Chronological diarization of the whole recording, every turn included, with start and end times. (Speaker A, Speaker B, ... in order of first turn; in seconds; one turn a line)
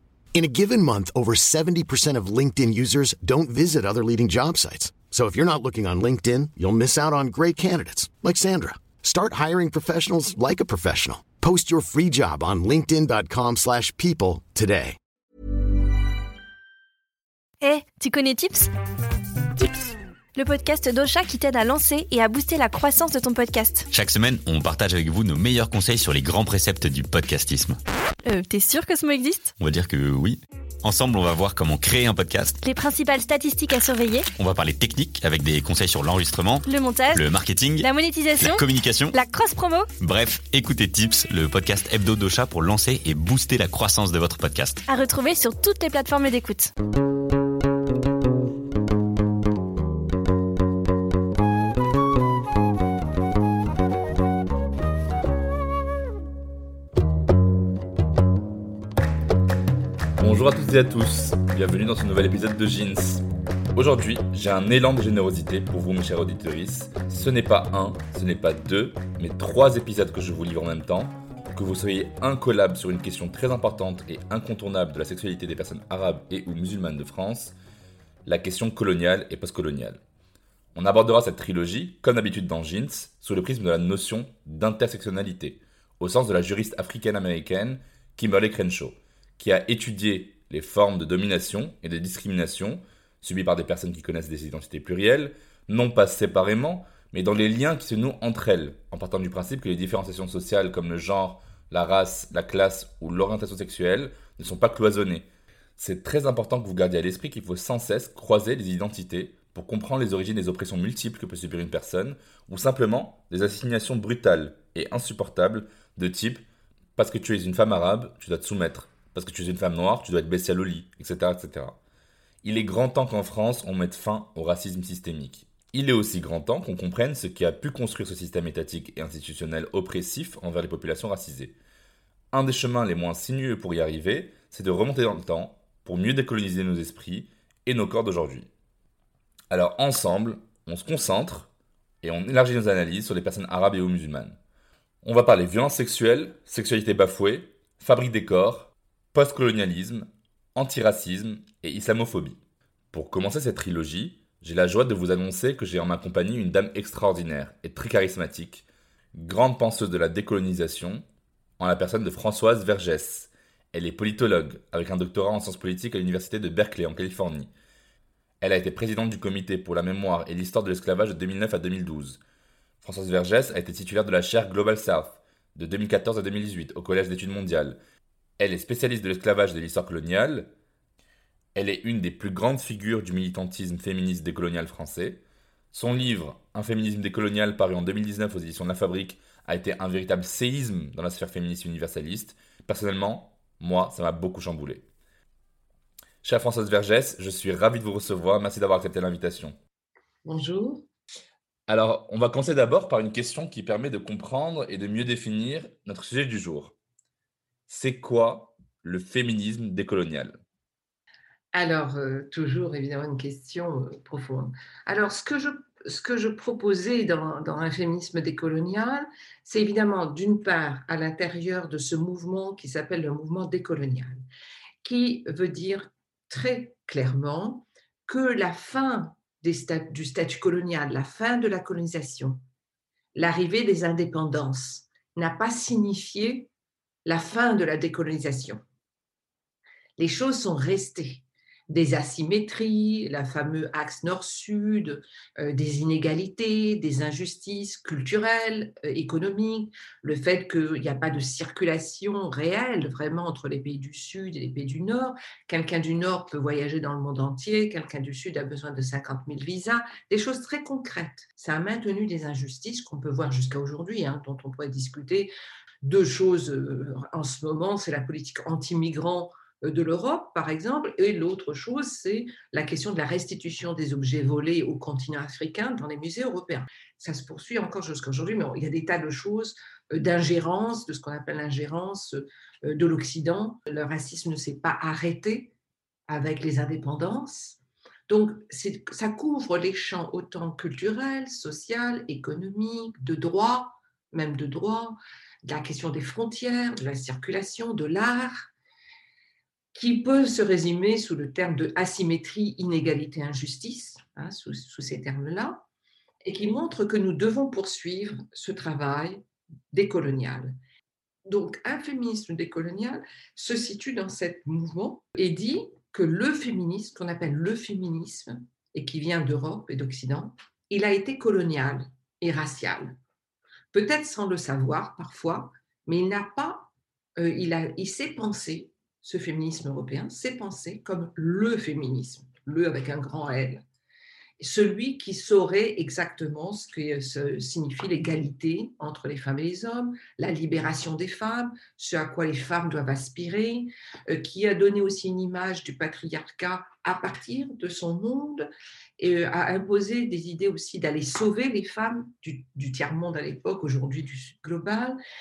Speaker A: 0.3-15.0
Speaker B: 17.6-18.7
Speaker B: 19.6-23.9
Speaker C: 23.9-27.8
Speaker B: 28.2-29.5
Speaker C: 29.6-32.6
Speaker B: 32.6-34.3
Speaker C: 34.4-39.2
Speaker B: 36.7-37.2
Speaker B: 37.8-39.9
Speaker C: 40.0-44.8
Speaker B: 44.9-46.7
Speaker D: 60.2-77.6
Speaker D: 78.2-80.0
Speaker D: 80.8-116.4
Speaker D: 117.0-121.8
Speaker D: 122.4-131.6
Speaker D: 132.3-138.5
Speaker D: 139.5-141.5
Speaker D: 142.0-144.4
Speaker D: 145.0-152.4
Speaker D: 152.9-161.1
Speaker D: 161.6-167.5
Speaker D: 168.4-172.2
Speaker D: 172.8-177.8
Speaker D: 178.4-180.5
Speaker D: 181.6-194.9
Speaker D: 196.2-199.6
Speaker E: 200.2-200.9
Speaker D: 201.7-206.8
Speaker D: 207.7-210.4
Speaker E: 211.5-224.2
Speaker E: 224.8-232.4
Speaker E: 233.2-236.5
Speaker E: 237.1-238.6
Speaker E: 240.0-265.3
Speaker E: 265.8-285.5
Speaker E: 286.1-298.5
Speaker E: 299.7-305.6
Speaker E: 306.2-310.6
Speaker E: 311.3-323.0
Speaker E: 323.7-333.6
Speaker E: 334.4-355.0